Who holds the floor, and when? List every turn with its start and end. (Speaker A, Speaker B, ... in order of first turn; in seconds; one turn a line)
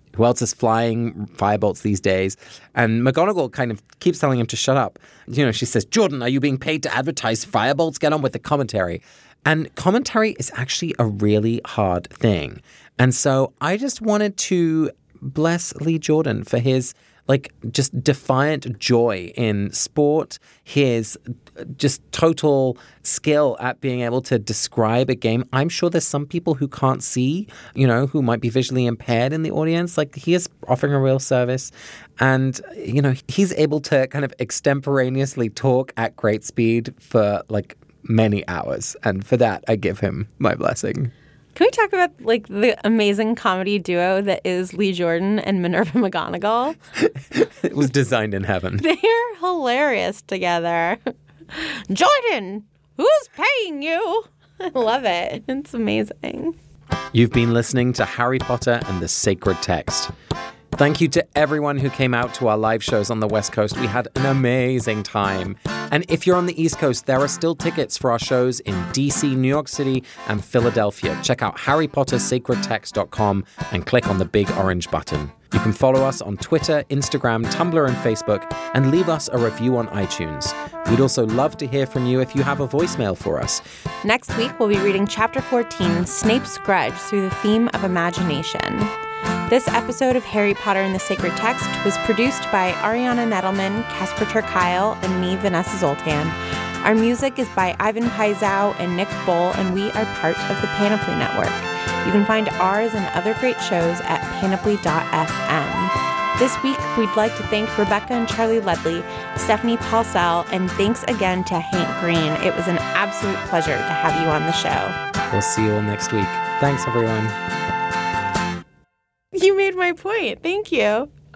Speaker A: 0.1-41.1
Speaker B: 41.5-46.8
Speaker A: 47.2-48.9
Speaker B: 48.8-56.5
Speaker A: 57.1-60.1
Speaker A: 60.7-83.6
Speaker B: 84.0-88.9
Speaker B: 89.5-115.0
Speaker A: 115.3-117.4
Speaker B: 119.3-121.1